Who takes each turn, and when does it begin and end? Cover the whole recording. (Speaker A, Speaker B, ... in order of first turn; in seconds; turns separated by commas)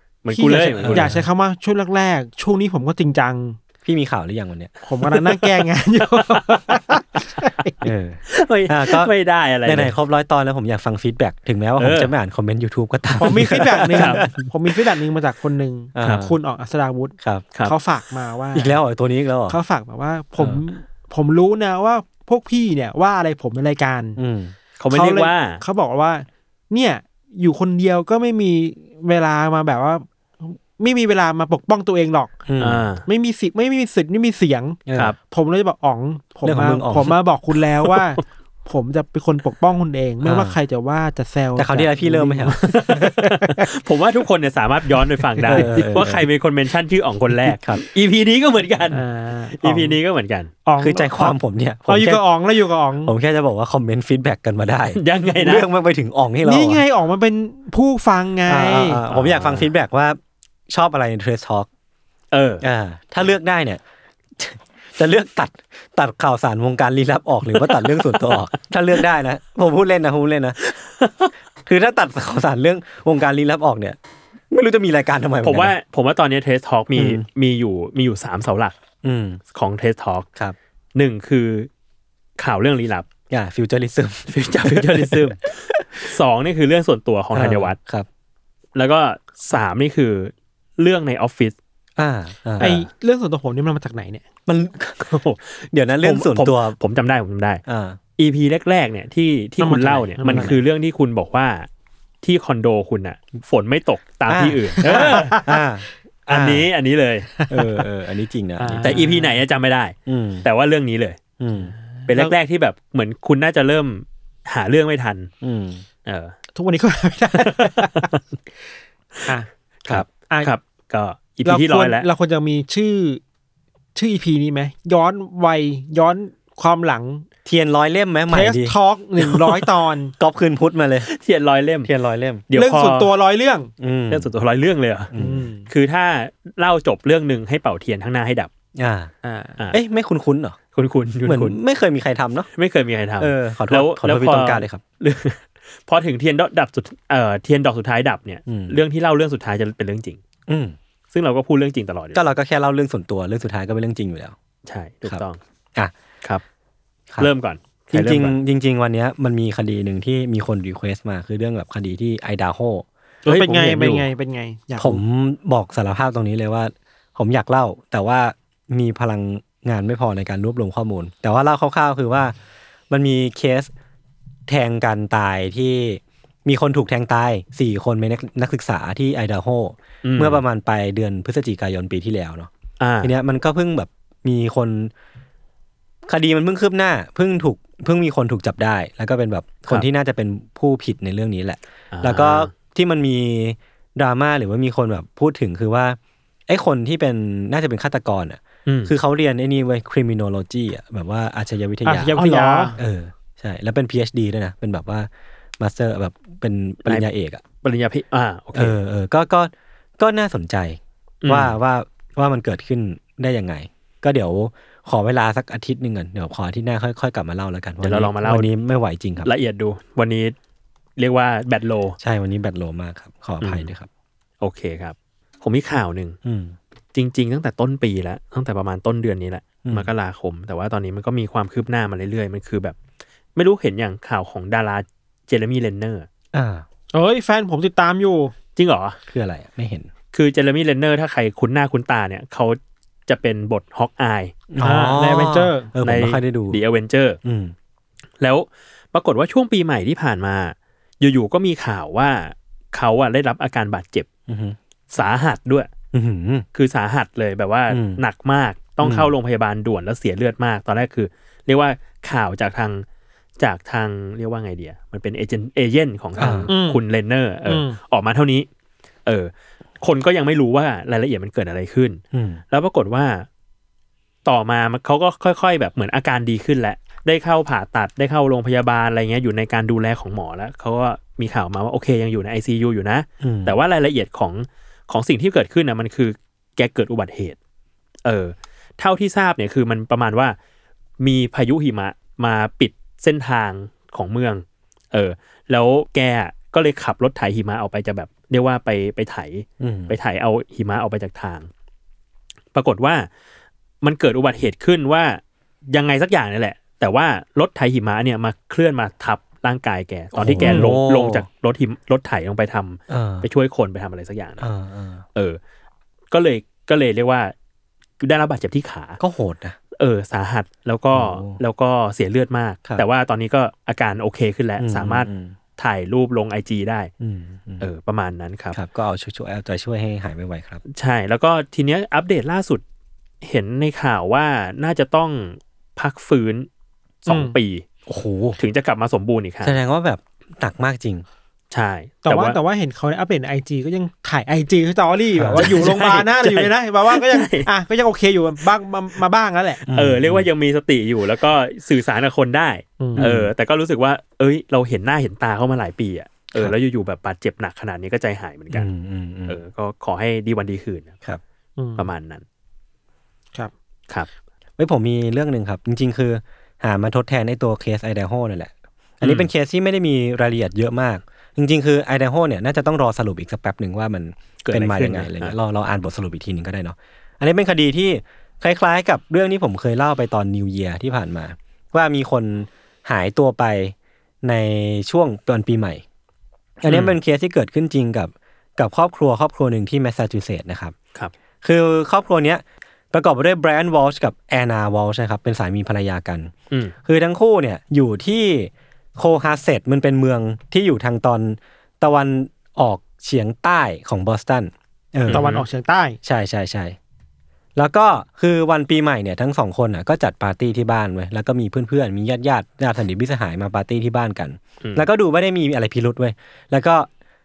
Speaker A: 0.2-1.1, Speaker B: 0.3-1.2, Speaker C: 0.8-3.6, Speaker B: 3.8-4.7, Speaker C: 4.8-7.7, Speaker A: 5.1-5.5, Speaker A: 6.1-6.6, Speaker B: 7.8-9.1, Speaker A: 8.3-9.9, Speaker B: 9.6-14.5, Speaker A: 11.8-12.1, Speaker C: 13.2-18.8, Speaker A: 13.3-14.2, Speaker B: 15.9-16.3, Speaker B: 18.5-19.6, Speaker C: 19.5-24.2, Speaker B: 24.2-24.5, Speaker A: 24.8-25.6, Speaker C: 24.9-32.4, Speaker B: 32.5-32.9, Speaker A: 32.6-33.0, Speaker C: 33.0-43.6, Speaker B: 34.9-35.1, Speaker B: 36.4-37.1, Speaker B: 40.2-40.5, Speaker B: 41.5-42.6, Speaker A: 42.6-49.0, Speaker C: 45.3-46.1, Speaker B: 45.5-46.2, Speaker B: 47.5-47.8, Speaker C: 48.9-50.0, Speaker A: 49.5-50.5, Speaker C: 50.6-53.1, Speaker B: 50.8-52.2, Speaker B: 53.0-56.8, Speaker A: 54.9-55.7, Speaker C: 56.4-59.0, Speaker B: 58.5-61.7, Speaker A: 59.1-59.7, Speaker A: 62.3-62.6, Speaker B: 62.6-63.8, Speaker B: 64.4-70.6, Speaker A: 67.5-68.5, Speaker A: 70.7-71.3, Speaker B: 71.7-74.0, Speaker B: 74.5-75.7, Speaker A: 75.4-78.7, Speaker B: 77.0-77.2, Speaker B: 79.0-79.4, Speaker A: 79.5-80.3, Speaker A: 80.9-81.7, Speaker A: 82.4-83.0, Speaker B: 83.3-85.4, Speaker A: 84.3-87.8, Speaker B: 87.3-88.1, Speaker A: 88.7-91.5, Speaker B: 92.0-92.8, Speaker C: 92.6-94.2, Speaker B: 94.5-95.1, Speaker A: 95.0-97.6, Speaker B: 95.7-96.8, Speaker B: 97.7-98.0, Speaker A: 98.2-101.7, Speaker C: 99.6-100.6, Speaker B: 100.2-100.6, Speaker A: 102.2-105.3, Speaker B: 104.3-106.7, Speaker C: 104.8-105.6, Speaker A: 106.3-107.3, Speaker C: 107.4-107.8, Speaker B: 107.5-109.0, Speaker C: 108.6-109.4, Speaker A: 108.8-111.2, Speaker B: 110.1-110.5, Speaker B: 111.4-111.7, Speaker C: 111.8-112.3, Speaker A: 112.1-115.3, Speaker B: 115.4-115.8, Speaker A: 116.0-116.3, Speaker C: 116.5-118.1, Speaker A: 117.4-118.2, Speaker A: 119.9-122.0, Speaker C: 120.2-120.5, Speaker C: 121.4-123.2, Speaker C: 123.9-127.2, Speaker B: 127.4-128.8, Speaker C: 128.3-130.1, Speaker B: 130.2-131.1, Speaker A: 131.1-131.9, Speaker B: 131.8-132.4, Speaker A: 132.5-133.1, Speaker C: 132.5-133.7, Speaker B: 133.8-134.3, Speaker A: 134.1-135.1, Speaker B: 135.1-135.5, Speaker C: 135.2-135.7, Speaker A: 135.7-138.5, Speaker B: 138.8-139.1, Speaker C: 139.2-139.6, Speaker B: 139.7-140.6, Speaker A: 140.7-141.5, Speaker B: 141.2-142.5, Speaker A: 142.6-150.2, Speaker B: 143.2-144.8, Speaker B: 148.5-148.8, Speaker B: 150.5-150.8, Speaker A: 151.1-152.2, Speaker B: 152.1-154.3, Speaker A: 154.7-155.4, Speaker A: 157.2-158.3, Speaker B: 157.9-162.8, Speaker C: 163.2-165.0, Speaker A: 163.2-164.0, Speaker B: 164.8-172.3, Speaker B: 172.9-173.7, Speaker B: 174.5-182.5, Speaker A: 180.0-180.4, Speaker A: 182.8-183.1, Speaker B: 183.0-184.9, Speaker B: 186.1-207.4, Speaker A: 191.9-192.5, Speaker A: 198.7-198.9, Speaker C: 201.8-202.8, Speaker A: 202.2-202.7, Speaker A: 207.6-208.8, Speaker B: 208.5-219.3, Speaker A: 211.2-211.6, Speaker A: 217.8-218.5, Speaker A: 219.2-220.3, Speaker A: 221.0-222.0, Speaker B: 222.0-223.9, Speaker A: 223.4-223.7, Speaker A: 224.4-226.2, Speaker B: 226.2-226.6, Speaker A: 226.9-232.8, Speaker B: 229.6-229.9, Speaker A: 233.3-236.1, Speaker B: 236.3-236.7, Speaker C: 236.9-238.3, Speaker A: 238.6-239.0, Speaker B: 239.1-239.9, Speaker A: 240.1-244.4, Speaker B: 244.5-246.6, Speaker C: 244.6-245.7, Speaker A: 245.8-247.2, Speaker B: 247.2-247.5, Speaker A: 248.2-254.1, Speaker B: 254.3-254.6, Speaker A: 254.9-255.7, Speaker B: 255.9-256.4, Speaker A: 256.5-262.8, Speaker B: 257.7-258.0, Speaker B: 258.8-259.1, Speaker A: 263.4-268.5, Speaker B: 266.2-266.5, Speaker C: 266.5-266.8, Speaker C: 267.4-267.8, Speaker A: 269.1-273.3, Speaker B: 272.1-272.4, Speaker A: 274.2-287.4, Speaker B: 283.2-283.6, Speaker A: 288.0-290.4, Speaker A: 291.0-301.5, Speaker B: 299.6-299.9, Speaker A: 302.5-303.1, Speaker A: 303.8-314.4, Speaker B: 310.1-311.2, Speaker C: 310.4-310.7, Speaker B: 312.9-313.3, Speaker B: 314.4-315.0, Speaker A: 316.1-317.3, Speaker A: 318.0-319.0, Speaker B: 319.0-319.6, Speaker A: 319.8-326.9, Speaker B: 320.9-321.4, Speaker B: 324.6-325.4, Speaker B: 327.0-327.6, Speaker A: 327.6-328.6, Speaker B: 328.5-330.6, Speaker A: 330.7-332.6, Speaker A: 333.2-336.5, Speaker A: 337.0-337.6, Speaker C: 337.1-337.3, Speaker B: 337.9-338.4, Speaker A: 338.4-339.6, Speaker B: 339.4-341.1, Speaker A: 341.5-342.4, Speaker C: 342.0-349.6, Speaker B: 345.1-345.6, Speaker A: 345.3-347.5, Speaker B: 349.7-350.3, Speaker A: 349.7-358.7, Speaker C: 352.8-353.1, Speaker B: 353.0-353.3, Speaker B: 358.5-359.4, Speaker A: 359.3-360.9, Speaker C: 361.6-361.9, Speaker A: 361.8-362.2, Speaker B: 364.6-385.8, Speaker A: 369.0-369.3, Speaker A: 374.4-375.3, Speaker B: 386.6-390.8, Speaker A: 386.7-386.9, Speaker B: 391.4-396.3, Speaker B: 396.8-405.2, Speaker A: 405.1-405.4, Speaker C: 405.1-406.0, Speaker B: 406.0-406.8, Speaker B: 407.6-416.9